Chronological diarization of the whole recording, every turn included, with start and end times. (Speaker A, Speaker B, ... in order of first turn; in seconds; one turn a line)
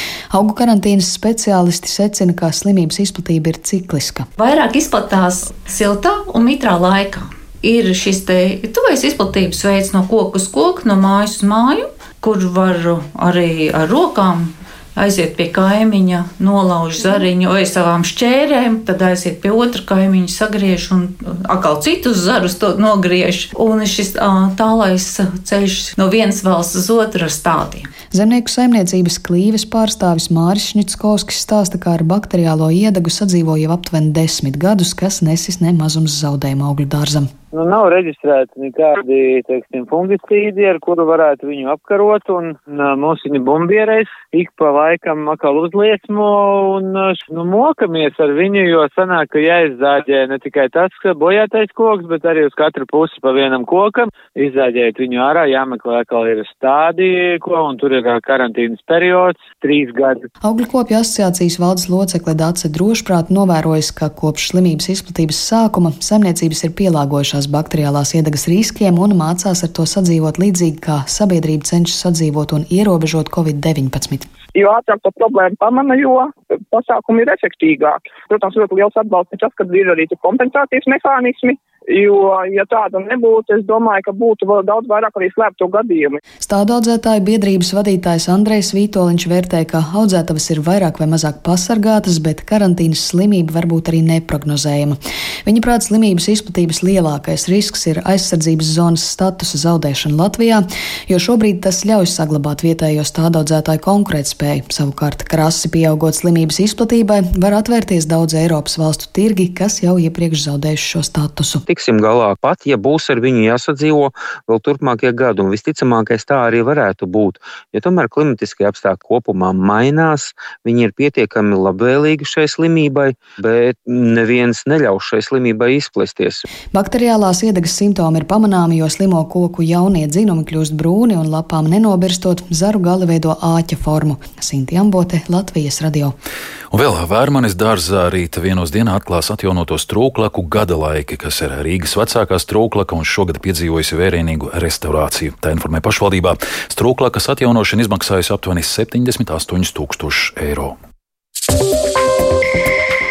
Speaker A: 0.3-4.3
Speaker B: 4.4-27.9
Speaker A: 28.1-37.3
Speaker C: 37.5-60.3
Speaker A: 60.4-74.3
Speaker D: 74.5-86.2
Speaker A: 86.4-111.6
Speaker E: 111.7-126.5
Speaker A: 126.7-136.2
Speaker F: 136.7-150.8